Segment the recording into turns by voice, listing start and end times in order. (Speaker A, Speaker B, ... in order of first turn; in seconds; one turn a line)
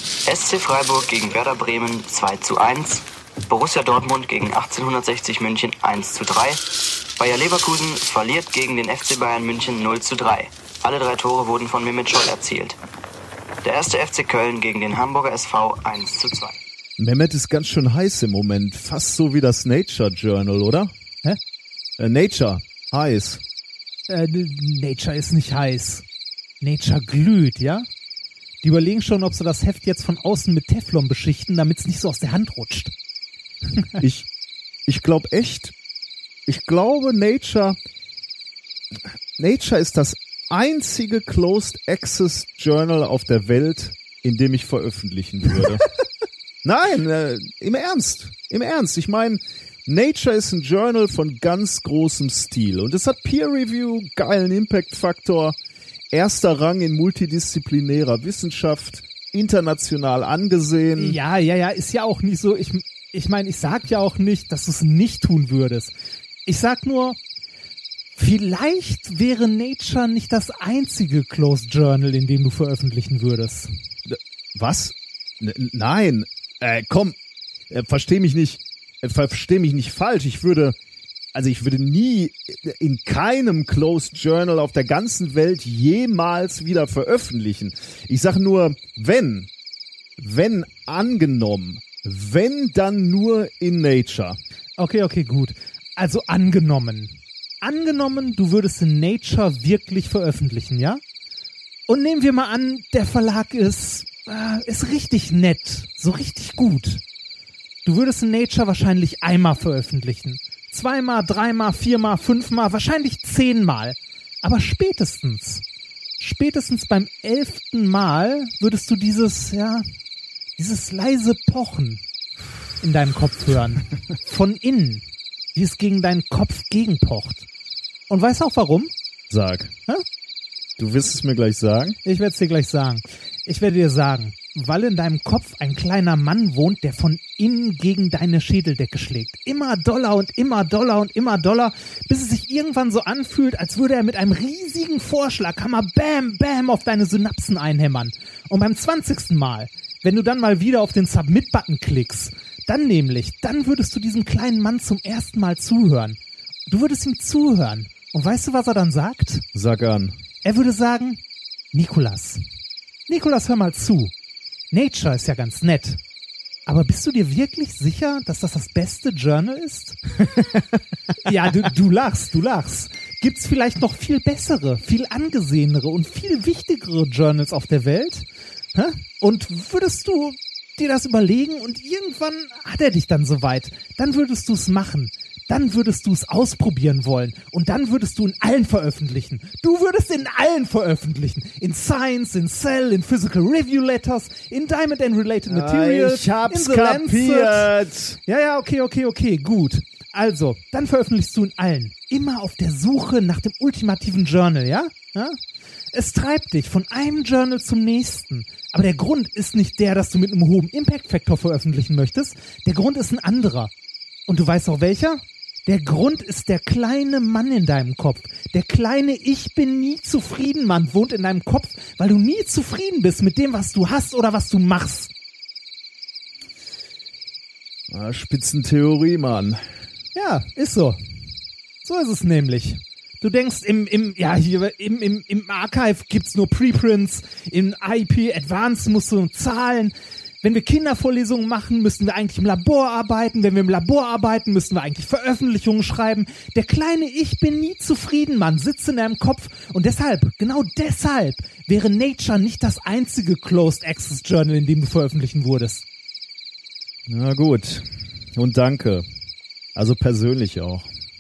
Speaker A: 0.3-6.6
Speaker A: 7.2-12.8
Speaker A: 13.6-16.6
Speaker B: 17.0-20.9
Speaker B: 22.0-23.4
Speaker C: 24.1-26.1
Speaker C: 26.6-27.9
Speaker C: 28.6-32.9
Speaker B: 34.0-34.3
Speaker B: 34.9-35.7
Speaker B: 36.5-37.8
Speaker B: 39.4-45.9
Speaker B: 46.6-55.6
Speaker B: 56.1-61.2
Speaker C: 61.0-65.9
Speaker C: 66.5-67.2
Speaker C: 68.2-73.7
Speaker B: 74.1-77.2
Speaker B: 77.7-80.8
Speaker B: 81.3-89.5
Speaker B: 90.2-94.4
Speaker C: 94.8-101.0
Speaker C: 101.9-107.0
Speaker C: 107.8-115.6
Speaker C: 116.2-119.8
Speaker C: 120.6-122.0
Speaker C: 122.8-127.5
Speaker C: 128.1-128.9
Speaker B: 129.3-129.7
Speaker B: 130.8-132.0
Speaker C: 132.0-159.5
Speaker B: 159.5-160.2
Speaker C: 160.4-161.2
Speaker C: 161.7-162.4
Speaker C: 163.1-164.1
Speaker C: 164.7-166.0
Speaker C: 166.7-170.0
Speaker C: 171.2-197.7
Speaker B: 195.5-198.2
Speaker C: 198.2-205.4
Speaker C: 205.9-213.7
Speaker C: 214.3-225.1
Speaker B: 227.9-229.6
Speaker C: 230.1-231.0
Speaker C: 231.8-255.8
Speaker B: 257.1-259.1
Speaker B: 259.8-260.9